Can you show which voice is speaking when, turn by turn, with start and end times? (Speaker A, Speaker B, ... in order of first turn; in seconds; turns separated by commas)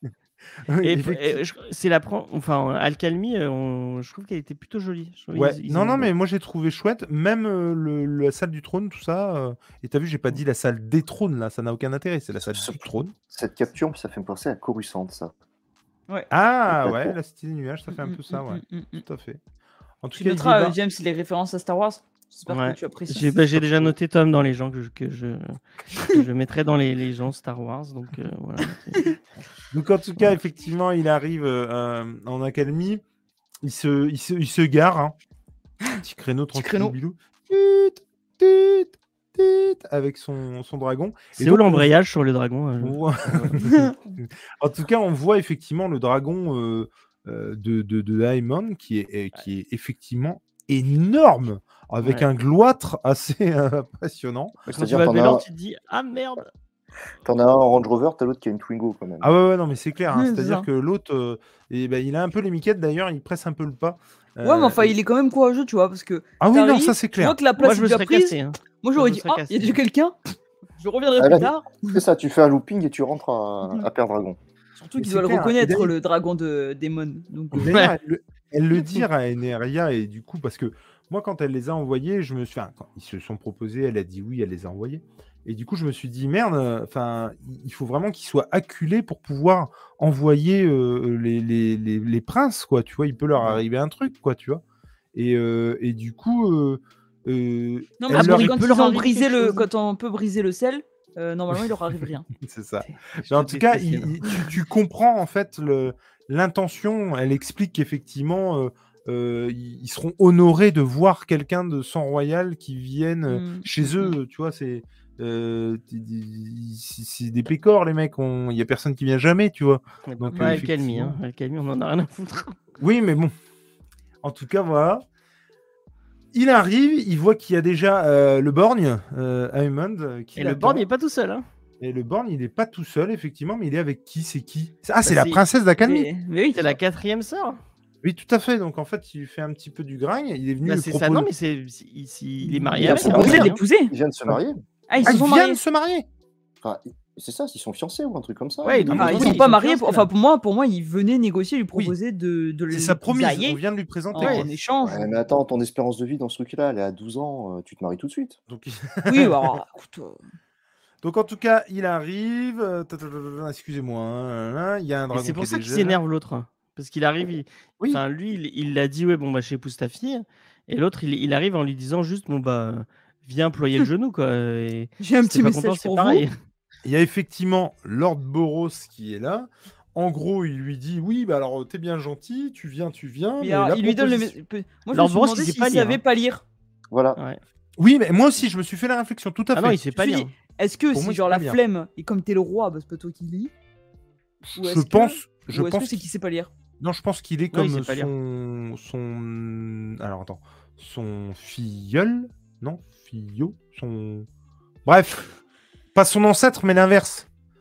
Speaker A: 0.7-1.4, Speaker B: 0.8-6.1, Speaker A: 5.3-13.1, Speaker C: 12.5-15.3, Speaker A: 16.3-19.4, Speaker C: 16.7-17.2, Speaker D: 17.9-19.0, Speaker A: 20.0-20.8, Speaker D: 20.1-23.9, Speaker B: 22.5-29.2, Speaker A: 29.7-33.0, Speaker A: 33.6-35.1, Speaker A: 35.9-41.9, Speaker D: 36.5-37.0, Speaker B: 41.4-43.5, Speaker A: 42.8-54.6, Speaker D: 43.6-43.9, Speaker C: 54.7-55.5, Speaker B: 54.7-56.5, Speaker C: 57.2-59.3, Speaker A: 59.2-65.0, Speaker D: 60.1-60.7, Speaker D: 64.4-70.2, Speaker A: 66.4-67.4, Speaker B: 67.6-69.8, Speaker D: 70.8-72.0, Speaker C: 71.2-74.4, Speaker D: 74.8-77.8, Speaker A: 75.0-75.9, Speaker A: 77.5-94.6, Speaker B: 77.6-78.0, Speaker A: 95.1-98.8, Speaker D: 98.0-102.3, Speaker B: 98.1-99.7, Speaker A: 102.3-121.2, Speaker B: 102.8-104.5, Speaker D: 113.3-114.2, Speaker B: 120.1-122.6, Speaker D: 120.3-120.6, Speaker A: 122.8-123.3, Speaker A: 124.2-125.0, Speaker A: 126.3-130.8, Speaker B: 130.4-131.5, Speaker A: 131.8-136.1, Speaker B: 135.1-135.4, Speaker D: 135.8-136.8, Speaker B: 136.5-137.6, Speaker A: 138.0-141.3, Speaker B: 140.6-143.6, Speaker D: 142.4-143.9, Speaker C: 142.8-144.6, Speaker D: 144.9-145.6, Speaker A: 145.0-146.1, Speaker C: 146.6-149.4, Speaker B: 148.6-150.1, Speaker A: 148.9-149.6, Speaker D: 148.9-153.6, Speaker A: 152.7-154.5, Speaker D: 154.1-155.2, Speaker B: 154.2-154.5, Speaker C: 154.8-158.4, Speaker A: 158.5-159.5, Speaker D: 159.1-160.2, Speaker A: 161.0-166.0, Speaker B: 165.1-176.3, Speaker D: 175.0-176.3, Speaker A: 176.8-184.3, Speaker D: 183.4-186.4, Speaker B: 184.9-186.0, Speaker C: 186.9-187.2, Speaker A: 187.8-189.9, Speaker B: 189.6-190.3, Speaker D: 190.0-193.5, Speaker A: 190.9-191.6, Speaker A: 194.4-196.0, Speaker D: 194.6-196.5, Speaker A: 196.8-204.3, Speaker B: 197.5-198.1, Speaker A: 204.9-205.4, Speaker A: 205.9-207.3